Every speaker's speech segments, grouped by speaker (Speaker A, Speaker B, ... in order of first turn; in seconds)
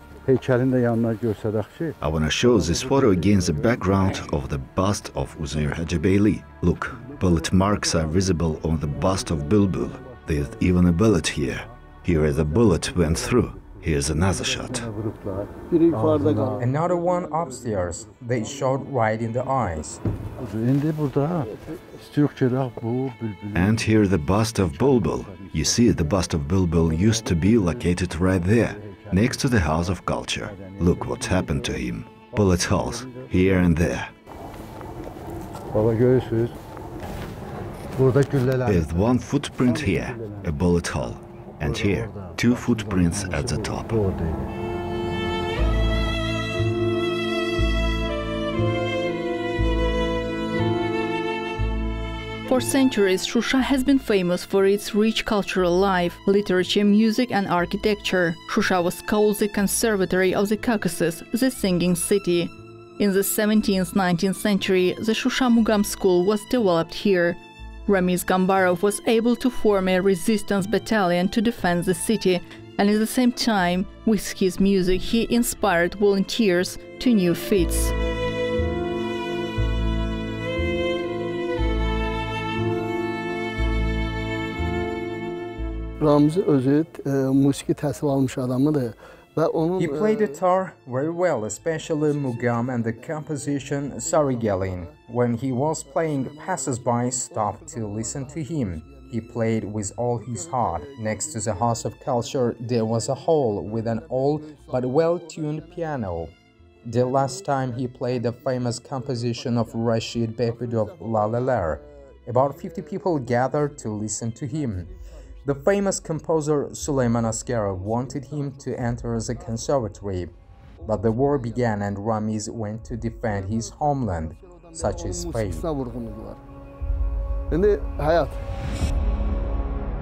Speaker A: 0.2-4.4, 5.6-6.0, 7.0-16.9, 20.4-33.8, 35.7-36.6, 38.0-40.5, 41.6-44.5
Speaker B: 2.0-14.9, 23.5-34.1, 38.6-44.0
Speaker C: 15.7-17.6, 18.4-18.9, 86.0-90.4, 92.0-95.0, 95.8-99.6, 100.2-105.9, 107.0-109.9, 110.4-115.5, 117.7-119.7, 120.8-121.7, 123.2-126.4, 127.5-128.4
Speaker D: 16.6-20.0, 89.8-106.3, 106.8-114.9, 115.5-120.3, 120.8-125.7
Speaker E: 52.5-77.9